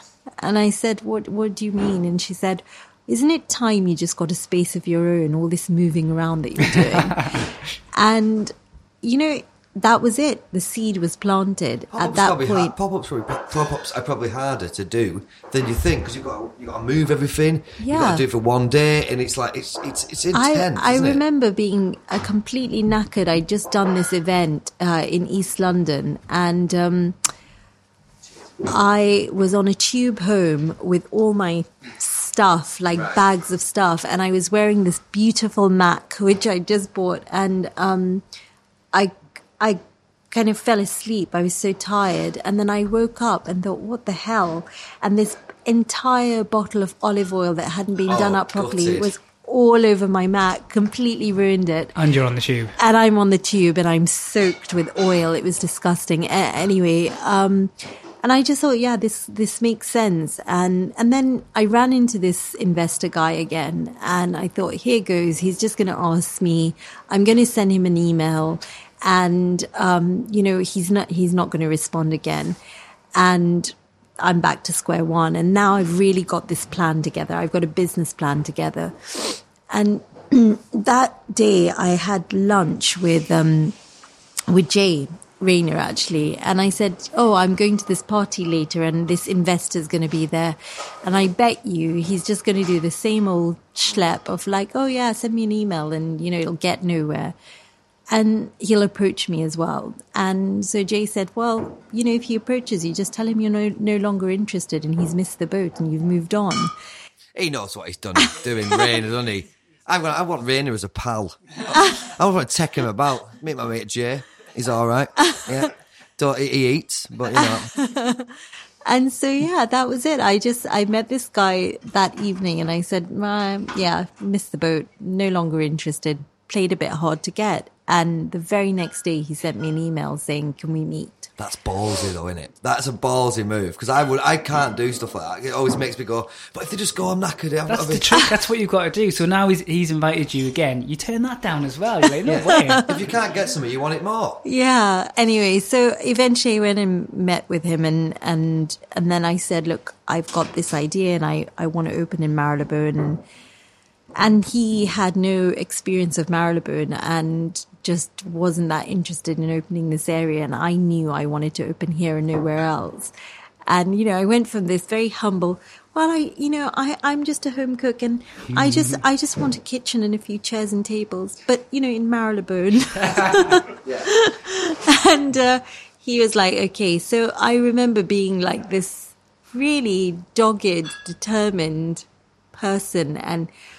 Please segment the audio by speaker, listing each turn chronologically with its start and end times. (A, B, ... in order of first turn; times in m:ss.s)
0:00.4-0:12.8 A
0:11.9-0:21.2 B
0:17.8-0:18.2 A
0:20.3-0:27.2 A
0:28.7-0:38.2 A
0:33.0-0:33.2 B
0:38.9-0:52.0 A
0:48.1-0:49.1 B
0:52.0-0:52.8 C
0:52.8-1:12.6 A
1:13.2-1:23.8 A
1:24.5-1:37.4 A
1:38.1-1:46.7 A
1:47.4-1:57.7 B
1:48.4-1:48.9 A
1:51.8-1:52.0 A
1:57.4-1:58.3 A
1:58.9-2:11.3 A
2:11.4-2:18.1 B
2:17.7-2:22.8 C
2:22.2-2:24.4 B
2:22.5-2:23.0 A
2:24.4-2:33.2 A
2:34.2-2:43.1 A
2:43.7-3:03.5 A
2:48.5-2:49.0 C
2:53.8-2:54.1 B